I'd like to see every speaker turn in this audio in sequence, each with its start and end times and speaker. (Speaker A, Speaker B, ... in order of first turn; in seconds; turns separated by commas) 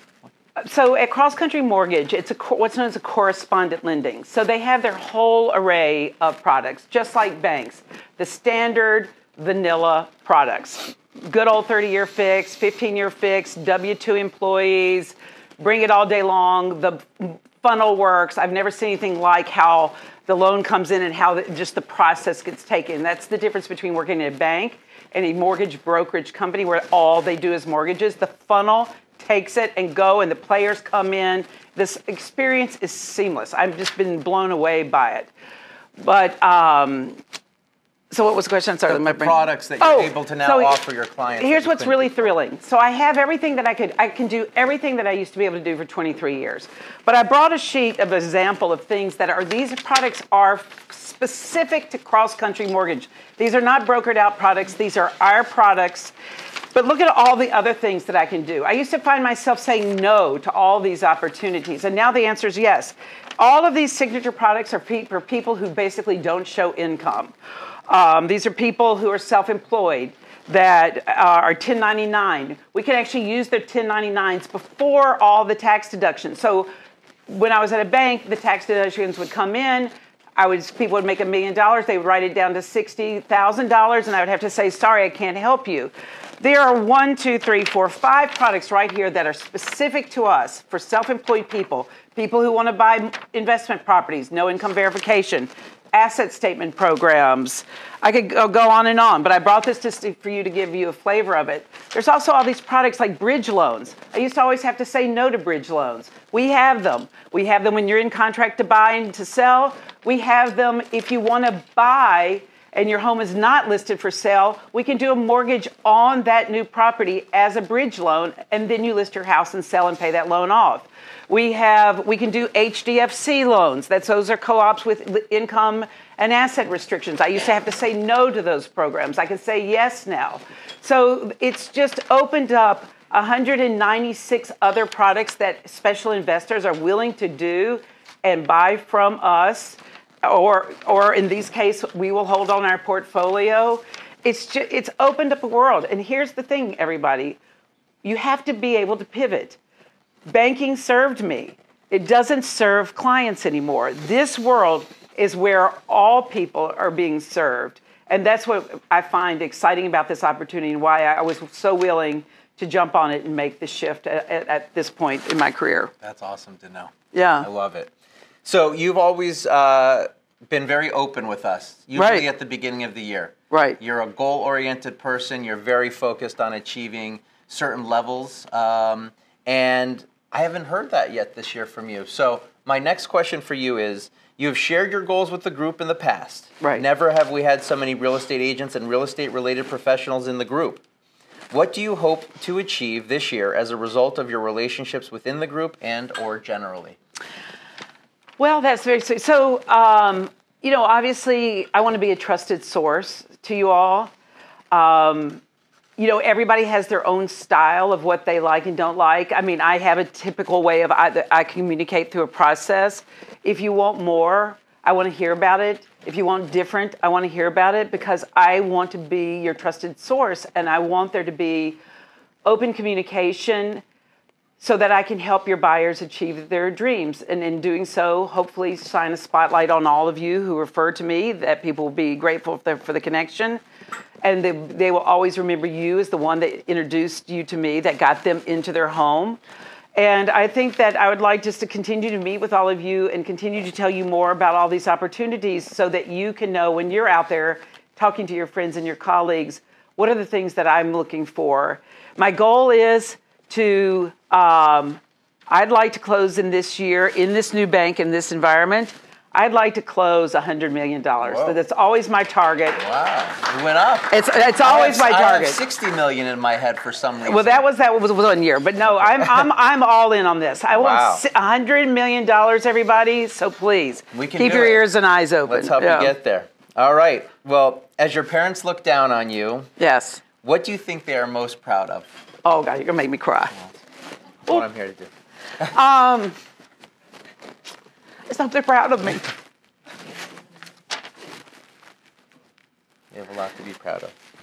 Speaker A: 0.6-35.3, Speaker A: 36.0-37.2, Speaker A: 38.1-40.8, Speaker B: 38.9-42.3, Speaker A: 41.4-56.1, Speaker A: 56.7-67.3, Speaker A: 67.9-76.7, Speaker A: 77.3-147.4, Speaker A: 148.0-149.6, Speaker A: 150.3-165.9, Speaker B: 166.0-167.9, Speaker A: 167.1-167.5, Speaker B: 168.4-190.8, Speaker A: 171.9-172.3, Speaker A: 173.5-173.8, Speaker B: 191.5-197.0, Speaker A: 198.4-204.1, Speaker A: 204.7-205.4, Speaker A: 206.0-221.8, Speaker A: 222.4-223.8, Speaker A: 224.6-233.6, Speaker A: 234.2-239.4, Speaker A: 239.9-262.8, Speaker B: 261.2-261.6, Speaker B: 262.8-267.6, Speaker A: 264.1-265.6, Speaker A: 267.3-276.1, Speaker B: 270.7-271.2, Speaker B: 274.1-274.8, Speaker B: 275.4-279.7, Speaker A: 279.8-280.2, Speaker B: 280.4-282.1, Speaker A: 282.4-283.5, Speaker B: 284.5-285.1, Speaker A: 285.7-286.3, Speaker A: 288.3-289.3, Speaker B: 293.1-294.1